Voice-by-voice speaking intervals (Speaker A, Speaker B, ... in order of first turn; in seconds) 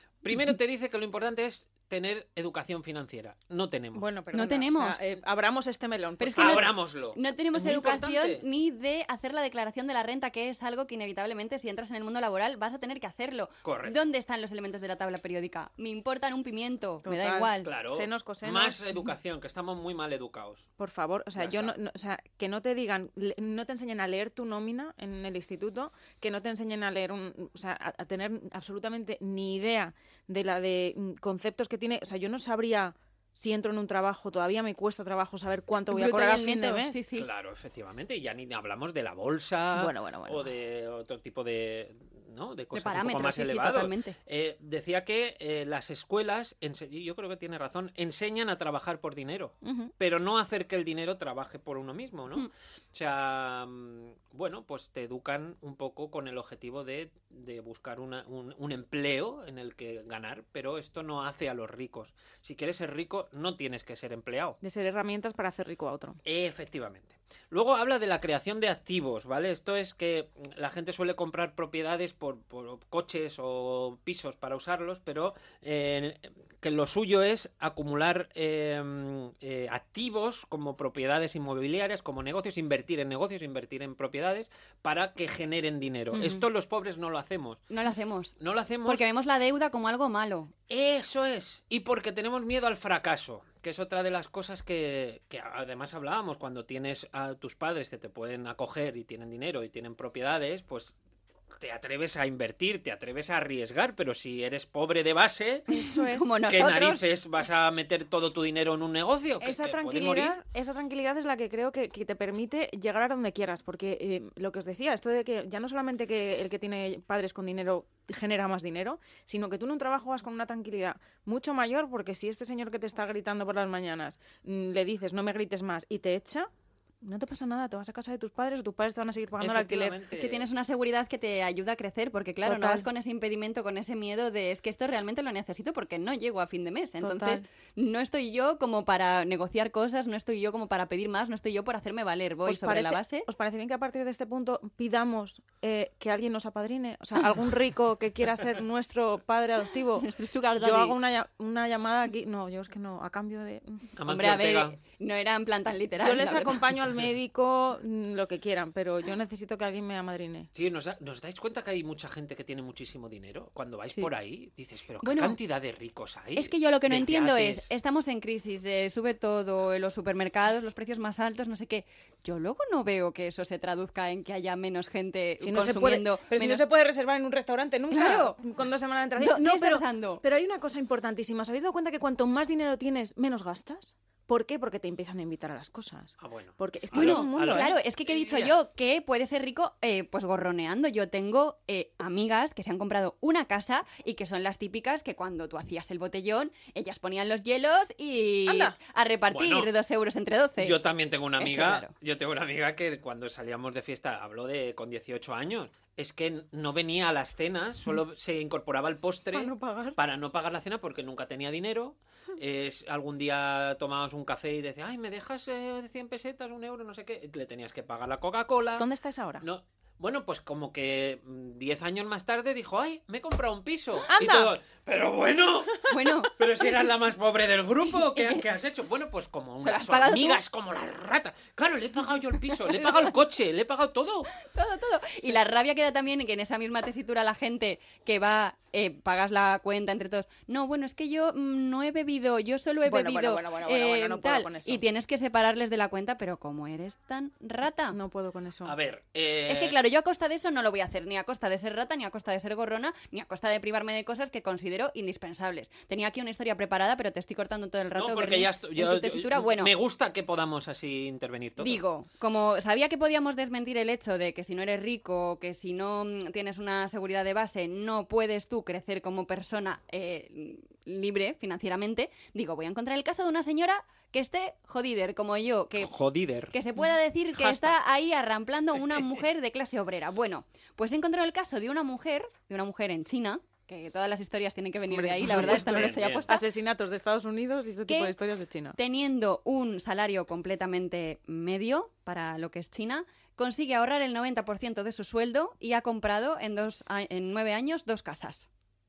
Speaker A: 0.2-4.1, 6.4-8.4, 13.6-14.0, 17.6-20.7, 21.4-21.8, 37.1-64.6, 66.2-87.6, 88.4-89.0, 90.7-101.0, 101.6-105.7, 106.5-110.4, 129.4-130.5, 154.0-154.8, 160.5-167.7, 186.2-188.5, 199.3-199.7, 200.6-218.9, 219.4-234.3, 248.7-249.8, 257.9-261.8, 275.8-276.6, 285.2-286.3
Speaker B: 4.0-6.7, 17.0-19.0, 20.8-37.0, 39.7-40.5, 49.6-49.9, 64.6-66.2, 86.1-86.4, 105.7-106.4, 109.4-126.5, 127.0-130.0, 132.4-132.9, 137.0-137.4, 142.4-150.1, 150.6-153.9, 156.0-160.5, 175.4-187.8, 198.5-198.8, 209.3-210.0, 218.8-219.4, 224.1-224.6, 242.8-244.8, 247.9-248.8, 277.4-277.7, 284.9-288.8
Speaker C: 4.3-5.0, 6.2-17.7, 35.9-37.3, 42.7-44.2, 87.7-90.5, 106.0-107.1, 130.1-143.3, 150.0-151.0, 154.1-156.7, 165.0-165.4, 166.4-176.6, 177.9-178.4, 179.2-180.2, 186.9-200.8, 201.4-201.9, 225.9-226.4, 227.9-228.4, 229.6-230.4, 234.4-248.0, 249.5-259.7, 261.6-275.9, 276.5-286.4, 287.9-288.1, 288.8-298.5